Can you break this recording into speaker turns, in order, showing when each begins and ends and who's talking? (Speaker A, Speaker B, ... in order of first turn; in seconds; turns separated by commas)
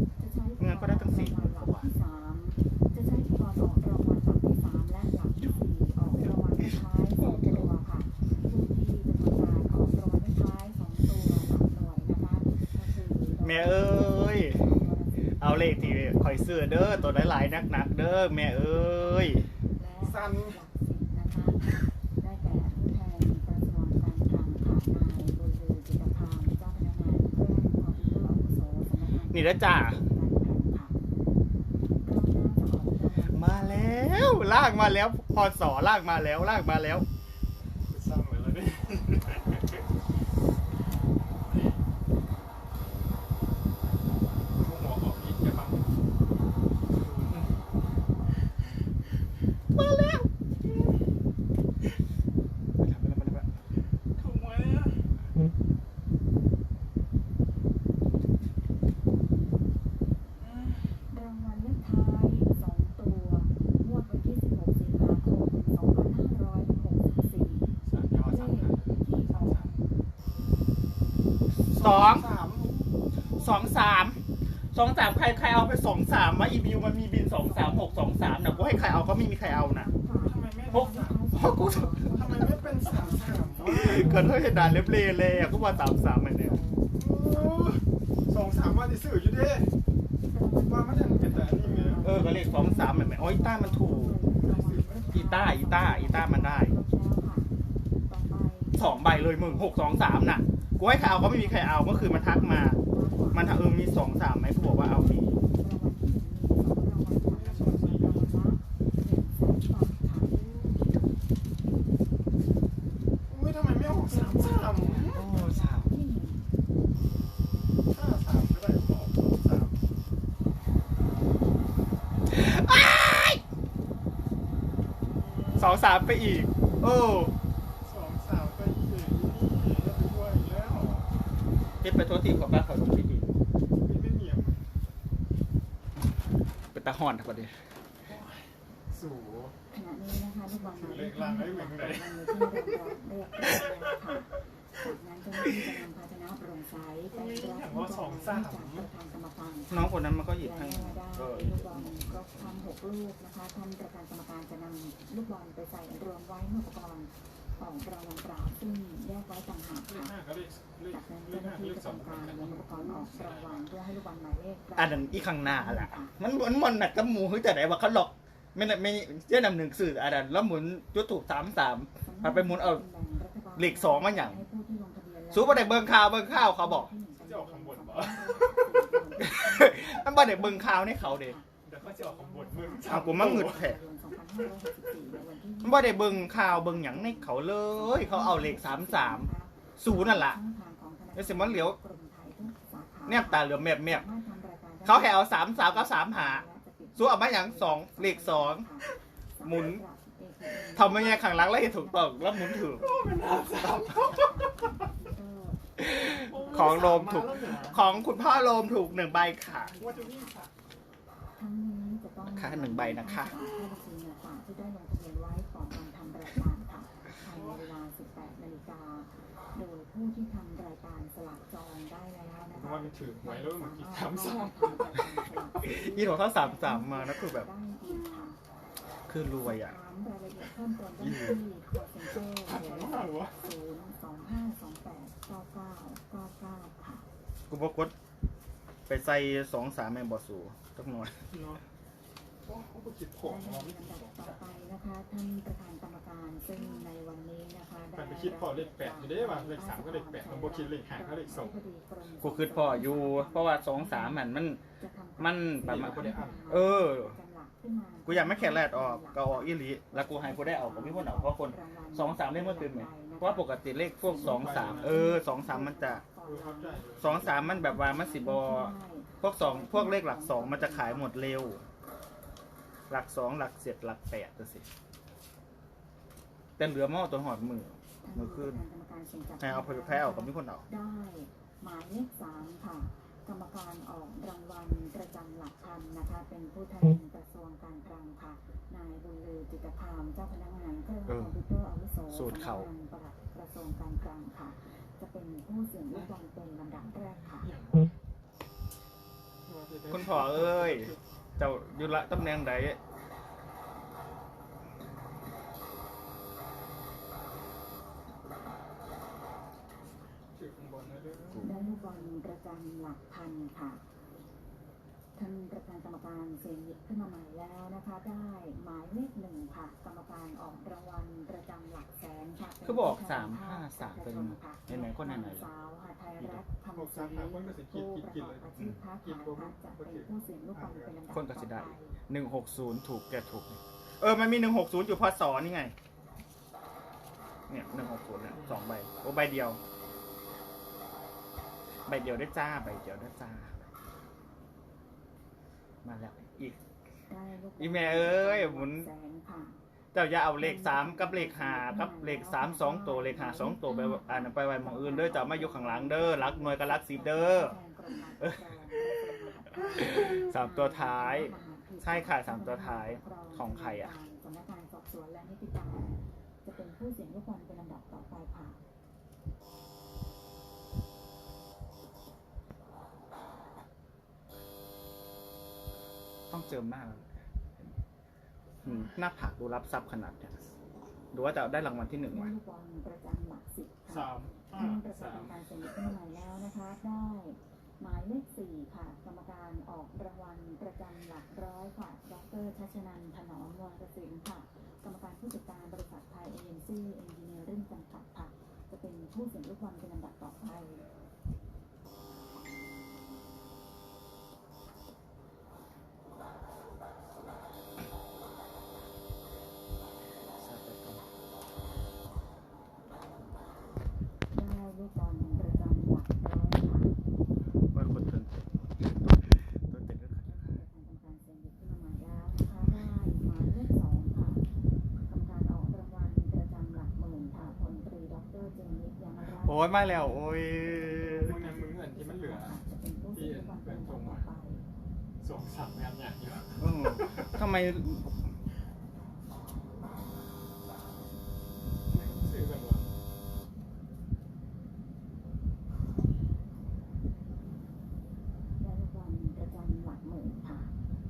Speaker A: 0.2-30.9, Speaker B: 0.6-1.9, Speaker B: 13.4-14.6, Speaker B: 15.4-19.5, Speaker C: 20.0-20.6, Speaker B: 29.3-30.1, Speaker A: 32.0-34.1, Speaker B: 33.3-37.1, Speaker C: 37.9-39.8, Speaker C: 41.5-41.8, Speaker C: 44.6-45.9, Speaker C: 46.9-47.5, Speaker B: 49.8-50.3, Speaker B: 52.8-53.5, Speaker C: 54.2-55.1, Speaker C: 60.4-60.8, Speaker A: 61.1-69.6, Speaker C: 67.8-69.8, Speaker C: 71.7-73.6, Speaker B: 71.7-72.3, Speaker B: 73.3-74.2, Speaker B: 74.7-79.9, Speaker A: 77.4-87.7, Speaker C: 80.1-81.3, Speaker B: 80.7-82.0, Speaker C: 82.0-84.3, Speaker B: 83.7-86.6, Speaker C: 86.9-89.7, Speaker A: 90.3-97.5, Speaker C: 90.6-92.0, Speaker B: 92.0-94.2, Speaker C: 94.4-95.1, Speaker B: 95.1-96.7, Speaker A: 98.1-103.9, Speaker B: 98.8-102.8, Speaker B: 103.3-105.3, Speaker A: 104.6-110.4, Speaker C: 107.2-108.3, Speaker C: 110.2-110.9, Speaker C: 113.3-115.2, Speaker A: 113.8-116.5, Speaker B: 115.0-115.9, Speaker C: 117.9-119.8, Speaker B: 122.3-123.4, Speaker C: 125.1-125.9, Speaker B: 125.6-127.3, Speaker C: 127.8-131.1, Speaker B: 131.8-133.3, Speaker C: 133.8-134.6, Speaker B: 136.7-137.6, Speaker C: 138.1-139.6, Speaker A: 139.7-160.1, Speaker C: 140.5-142.8, Speaker C: 143.6-144.0, Speaker C: 147.1-148.9, Speaker B: 149.7-152.7, Speaker C: 159.8-163.7, Speaker A: 160.9-166.2, Speaker B: 164.8-172.8, Speaker A: 172.0-210.3, Speaker B: 173.6-174.4, Speaker B: 175.3-176.9, Speaker C: 177.2-178.4, Speaker B: 179.2-181.4, Speaker C: 181.6-183.7, Speaker B: 182.9-183.8, Speaker B: 185.6-190.4, Speaker B: 191.2-191.8, Speaker B: 193.1-194.1, Speaker B: 194.8-196.4, Speaker B: 197.0-198.7, Speaker B: 199.4-199.8, Speaker B: 200.8-202.9, Speaker C: 202.8-204.7, Speaker B: 205.8-209.8, Speaker C: 206.1-207.9, Speaker C: 209.8-210.5, Speaker A: 211.3-228.4, Speaker B: 212.3-213.4, Speaker C: 217.3-217.7, Speaker C: 222.5-225.0, Speaker B: 225.6-227.5, Speaker B: 229.1-229.7, Speaker A: 229.4-237.1, Speaker C: 231.0-231.4, Speaker C: 232.1-233.5, Speaker B: 237.5-237.9, Speaker B: 238.9-241.2, Speaker C: 241.3-241.6, Speaker C: 242.4-244.4, Speaker A: 243.2-254.3, Speaker C: 247.9-251.6, Speaker B: 252.2-254.6, Speaker A: 254.8-271.2, Speaker B: 255.2-257.2, Speaker C: 255.6-256.4, Speaker B: 258.1-266.0, Speaker C: 264.1-265.0, Speaker C: 266.2-267.3, Speaker B: 267.0-271.6, Speaker B: 272.9-274.7, Speaker B: 276.6-278.6, Speaker A: 278.0-297.5, Speaker B: 279.4-280.6, Speaker B: 291.1-291.4, Speaker B: 292.1-292.7, Speaker C: 297.4-297.9, Speaker C: 299.5-301.0, Speaker B: 299.9-302.8, Speaker C: 310.4-312.1, Speaker A: 311.4-313.8, Speaker A: 315.2-332.0, Speaker B: 322.6-325.5, Speaker C: 326.7-331.0, Speaker B: 331.1-335.7, Speaker B: 337.5-339.6, Speaker C: 338.3-338.6, Speaker B: 341.9-343.7, Speaker B: 345.8-346.6, Speaker A: 347.1-349.6, Speaker B: 347.6-348.9, Speaker B: 349.9-357.6, Speaker A: 350.4-368.6, Speaker B: 359.5-363.9, Speaker B: 376.3-377.1, Speaker B: 378.6-380.5, Speaker B: 381.1-382.3, Speaker A: 382.1-400.9, Speaker C: 383.9-385.4, Speaker B: 410.4-411.0, Speaker A: 414.3-416.9, Speaker B: 417.7-420.5, Speaker A: 420.2-424.4, Speaker A: 425.1-434.6, Speaker B: 429.4-431.3, Speaker C: 430.9-432.6, Speaker C: 433.1-434.3, Speaker C: 435.2-437.4, Speaker B: 436.6-438.1, Speaker C: 441.9-442.9, Speaker A: 448.6-450.7